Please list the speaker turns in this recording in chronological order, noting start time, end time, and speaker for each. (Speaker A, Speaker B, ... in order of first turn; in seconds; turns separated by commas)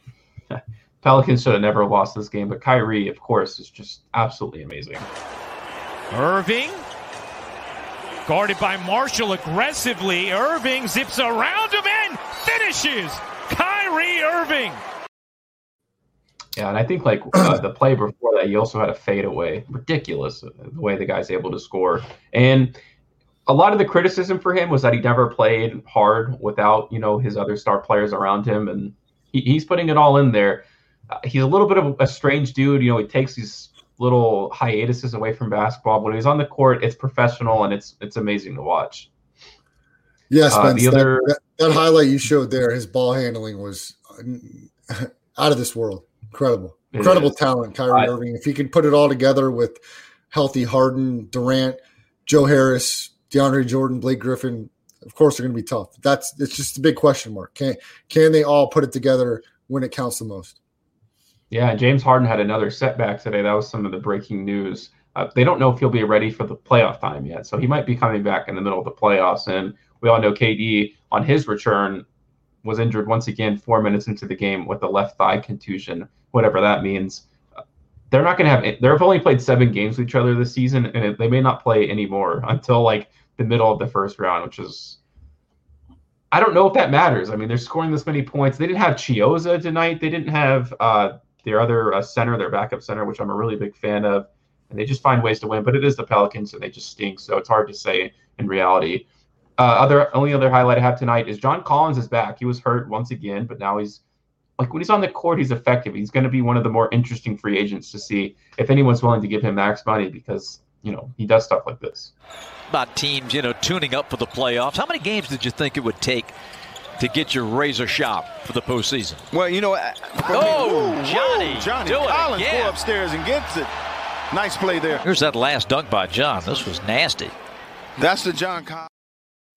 Speaker A: 0.5-5.1, Speaker B: 6.1-6.8, Speaker B: 8.2-14.8, Speaker A: 16.6-22.8, Speaker A: 23.4-39.1, Speaker C: 40.3-60.6, Speaker A: 40.5-41.3, Speaker A: 46.9-47.3, Speaker A: 61.5-72.0, Speaker A: 72.6-77.2, Speaker A: 78.1-85.0, Speaker A: 86.3-99.0, Speaker A: 99.6-104.0, Speaker A: 104.6-112.1, Speaker D: 112.7-116.3, Speaker D: 117.0-119.2, Speaker E: 119.3-123.7, Speaker D: 120.3-122.8, Speaker E: 124.3-125.0, Speaker D: 125.0-127.3, Speaker E: 128.0-128.9